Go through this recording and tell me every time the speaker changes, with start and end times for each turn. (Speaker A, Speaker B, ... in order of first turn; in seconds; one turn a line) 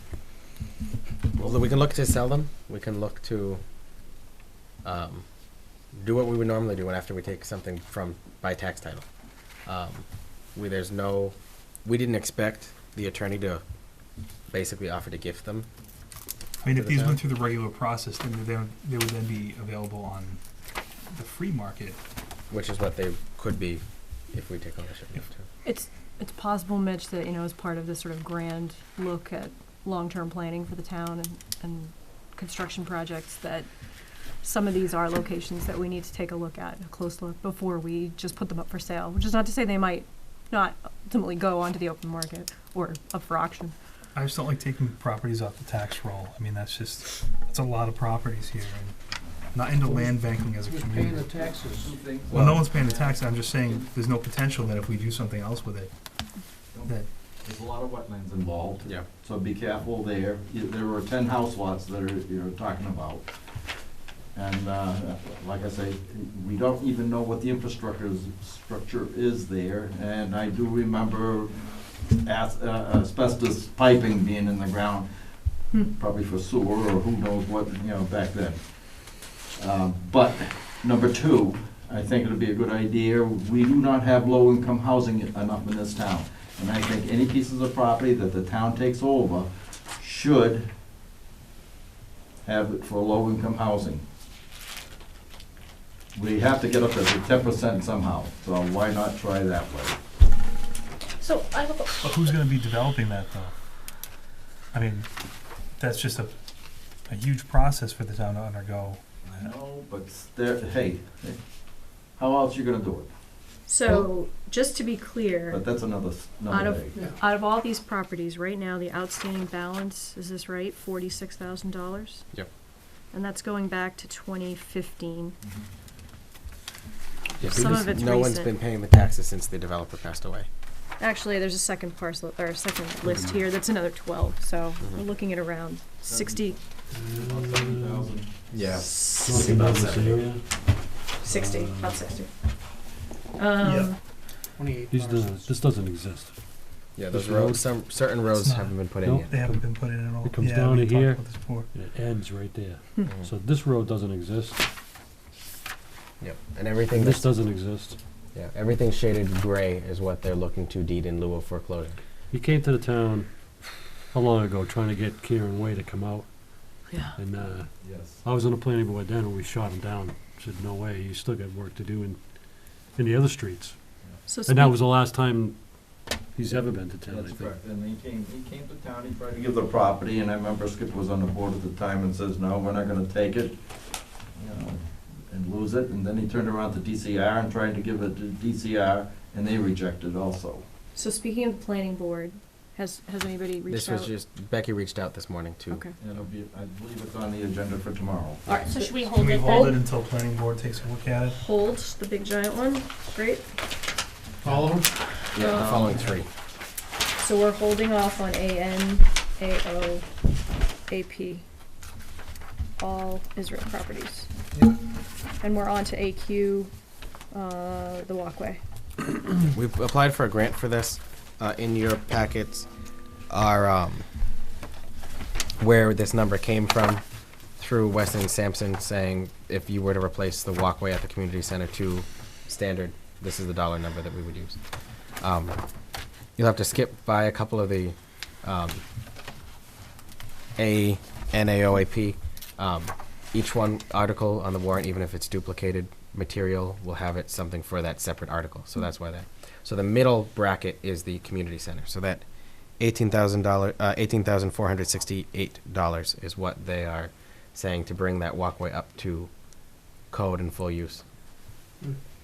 Speaker A: 1.4-3.6
Speaker A: 4.8-5.2
Speaker A: 5.9-9.1
Speaker A: 9.7-13.6
Speaker A: 14.5-15.7
Speaker B: 16.6-20.4
Speaker A: 16.7-17.2
Speaker B: 21.1-22.0
Speaker A: 22.5-25.4
Speaker C: 25.6-33.7
Speaker C: 34.4-43.8
Speaker B: 44.1-49.0
Speaker B: 49.5-51.3
Speaker D: 49.7-51.9
Speaker E: 51.1-53.9
Speaker B: 52.3-55.9
Speaker E: 56.7-63.3
Speaker E: 64.3-75.1
Speaker E: 75.7-78.6
Speaker E: 79.5-90.7
Speaker E: 92.5-94.0
Speaker E: 96.2-100.0
Speaker F: 101.2-102.0
Speaker B: 102.0-103.5
Speaker B: 104.7-105.1
Speaker B: 105.8-106.3
Speaker B: 107.1-109.0
Speaker E: 109.2-111.4
Speaker E: 112.2-113.1
Speaker C: 113.7-115.6
Speaker E: 115.5-117.0
Speaker C: 116.5-122.3
Speaker D: 116.9-117.2
Speaker C: 123.1-125.4
Speaker A: 127.4-130.5
Speaker C: 127.4-128.5
Speaker G: 127.5-127.9
Speaker C: 131.0-136.6
Speaker G: 133.0-133.5
Speaker E: 136.0-138.3
Speaker G: 136.9-138.1
Speaker A: 138.5-140.2
Speaker C: 138.9-139.2
Speaker G: 139.2-142.1
Speaker C: 141.2-142.3
Speaker C: 143.4-144.0
Speaker B: 143.7-143.9
Speaker D: 144.6-145.5
Speaker G: 144.9-146.4
Speaker A: 146.9-149.3
Speaker G: 147.1-147.7
Speaker B: 148.3-151.7
Speaker G: 149.0-154.6
Speaker A: 153.1-153.3
Speaker A: 156.2-157.3
Speaker G: 156.9-158.0
Speaker A: 158.3-162.0
Speaker G: 162.3-166.3
Speaker G: 167.2-175.6
Speaker E: 167.8-168.2
Speaker C: 174.3-174.8
Speaker G: 176.3-177.5
Speaker E: 177.1-183.6
Speaker E: 184.3-190.7
Speaker C: 190.9-194.1
Speaker A: 193.7-195.8
Speaker E: 196.0-198.6
Speaker C: 198.5-199.8
Speaker F: 198.7-199.8
Speaker B: 199.2-201.4
Speaker C: 201.3-203.5
Speaker D: 204.4-205.0
Speaker A: 205.3-206.3
Speaker C: 205.4-205.9
Speaker E: 205.4-206.0
Speaker C: 207.2-210.1
Speaker C: 210.9-211.4
Speaker C: 212.8-214.3
Speaker C: 215.4-216.7
Speaker C: 217.3-218.6
Speaker A: 219.2-222.7
Speaker A: 223.3-224.1
Speaker A: 225.6-227.0
Speaker A: 227.6-234.6
Speaker A: 235.2-235.7
Speaker A: 236.4-238.8
Speaker A: 240.6-252.2
Speaker A: 252.8-259.3
Speaker A: 260.1-261.0